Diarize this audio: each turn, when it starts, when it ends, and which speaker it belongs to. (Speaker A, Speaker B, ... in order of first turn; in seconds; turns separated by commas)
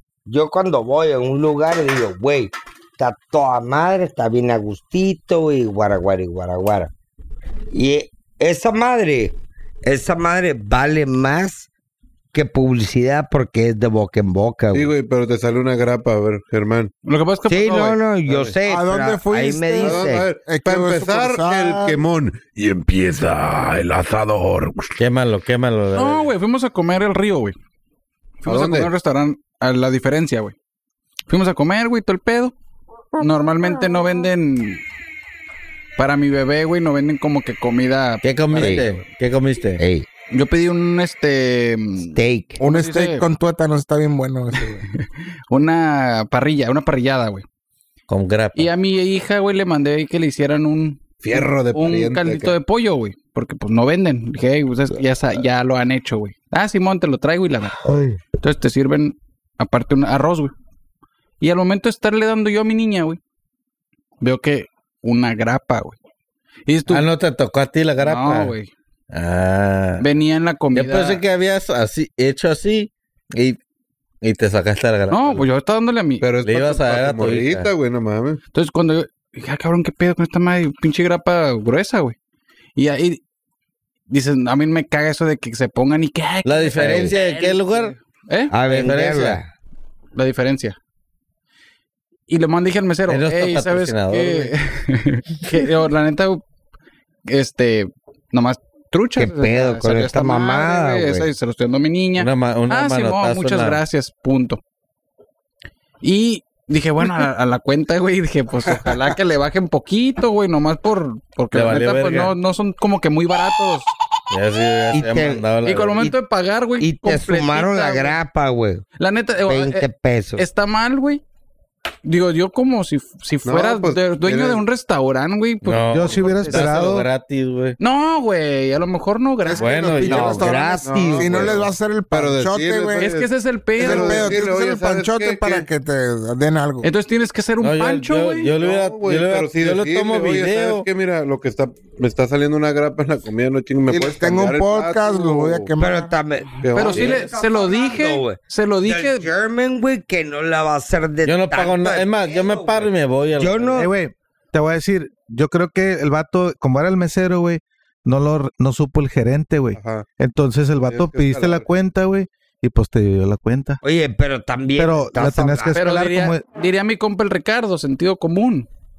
Speaker A: 0.3-6.9, Speaker A: 7.7-11.7, Speaker A: 12.3-14.9, Speaker B: 14.7-16.9, Speaker C: 17.1-18.0, Speaker A: 17.5-20.3, Speaker B: 18.3-18.6, Speaker D: 18.7-22.0, Speaker B: 19.8-25.0, Speaker E: 25.0-26.3, Speaker C: 25.9-27.6, Speaker C: 28.4-30.5, Speaker B: 28.4-28.9, Speaker C: 31.3-32.5, Speaker C: 33.1-34.8, Speaker C: 36.0-39.0, Speaker E: 38.2-39.8, Speaker A: 38.5-38.9, Speaker A: 39.8-40.1, Speaker C: 40.3-43.2, Speaker A: 42.1-42.6, Speaker D: 42.6-44.8, Speaker C: 44.6-47.4, Speaker E: 48.1-48.7, Speaker C: 48.6-57.8, Speaker B: 51.2-52.5, Speaker A: 57.8-58.2, Speaker C: 58.4-60.5, Speaker C: 61.4-63.2, Speaker C: 64.2-66.0, Speaker C: 66.7-67.1, Speaker E: 66.9-68.6, Speaker C: 68.0-68.7, Speaker E: 69.1-70.1, Speaker C: 70.0-71.2, Speaker E: 70.7-73.6, Speaker E: 74.2-75.5, Speaker C: 75.1-76.2, Speaker B: 76.2-78.4, Speaker E: 76.4-77.7, Speaker C: 78.5-82.2, Speaker C: 82.8-83.2, Speaker C: 84.1-88.5, Speaker E: 86.5-87.9, Speaker A: 86.9-87.5, Speaker A: 88.5-89.5, Speaker E: 88.7-89.4, Speaker C: 90.2-90.8, Speaker C: 92.3-96.4, Speaker E: 93.1-94.5, Speaker C: 97.3-104.6, Speaker A: 99.2-101.3, Speaker E: 102.2-103.8, Speaker C: 106.0-113.9, Speaker E: 111.5-112.3, Speaker E: 114.3-116.0, Speaker A: 114.9-115.4, Speaker C: 115.7-118.2, Speaker A: 116.8-118.8, Speaker C: 119.0-119.9, Speaker A: 119.5-120.5, Speaker C: 120.4-121.2, Speaker C: 122.0-126.7, Speaker B: 123.5-124.6, Speaker E: 125.6-127.8, Speaker F: 125.9-127.1, Speaker C: 127.8-130.4, Speaker E: 129.6-130.4, Speaker B: 129.6-133.3, Speaker D: 130.0-133.1, Speaker A: 130.1-131.5, Speaker C: 133.0-134.4, Speaker D: 133.8-136.9, Speaker B: 133.8-135.7, Speaker C: 136.8-138.5, Speaker E: 137.6-140.9, Speaker B: 138.6-145.7, Speaker D: 143.9-146.1, Speaker A: 145.8-153.9, Speaker B: 146.6-147.2, Speaker C: 146.7-149.3, Speaker E: 151.2-153.9, Speaker F: 153.8-163.8, Speaker B: 159.8-160.1, Speaker B: 160.8-161.7, Speaker A: 163.8-165.8, Speaker F: 164.8-166.4, Speaker C: 165.8-168.7